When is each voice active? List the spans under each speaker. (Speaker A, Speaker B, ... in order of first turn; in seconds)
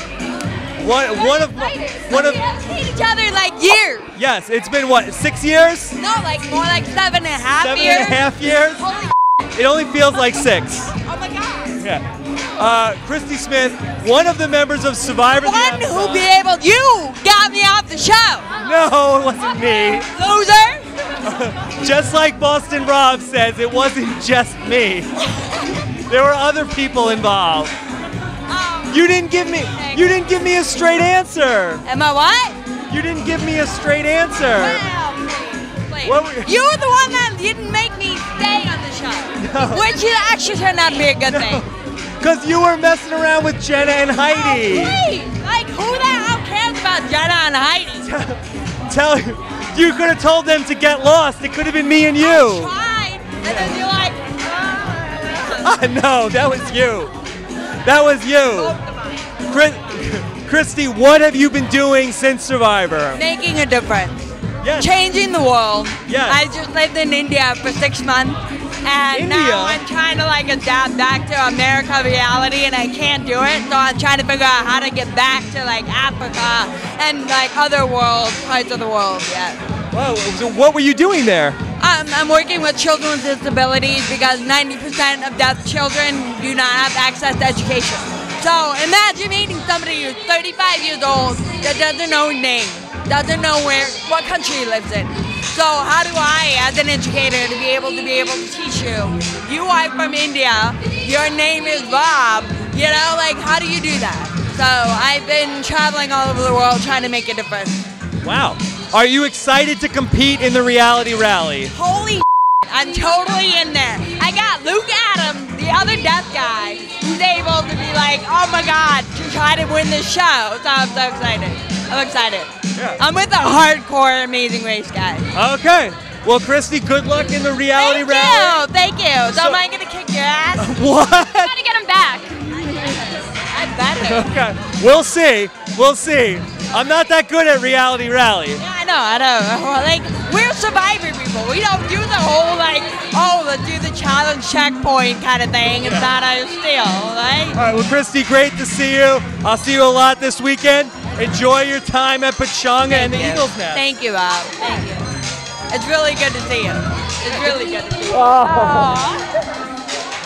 Speaker A: 0.8-2.4, 4.2-6.0, 7.6-8.8, 9.5-11.0, 11.8-12.0, 12.6-16.3, 18.6-20.1, 21.2-25.1, 26.1-27.7, 28.9-31.8, 32.9-34.8, 36.0-36.5, 39.4-39.9, 41.3-41.7, 42.2-45.0, 48.0-52.7, 53.4-53.7, 55.5-57.1, 57.8-58.7, 59.5-63.2, 64.6-64.9, 66.1-66.4, 69.1-69.8, 79.9-81.6, 108.2-111.7, 122.7-123.0, 125.3-128.6, 129.3-129.6, 130.6-131.5, 134.0-138.6, 145.8-146.1, 147.5-153.8, 158.1-159.0
Speaker B: 1.1-4.1, 6.0-9.2, 11.0-11.8, 15.3-18.6, 19.6-21.0, 25.4-25.6, 28.5-30.3, 31.8-32.6, 34.5-41.6, 44.2-48.1, 52.2-55.7, 58.5-59.3, 63.1-64.2, 64.7-79.6, 81.8-107.8, 111.7-125.3, 127.7-130.8, 131.4-134.3, 138.6-147.6, 152.8-155.1, 155.7-159.3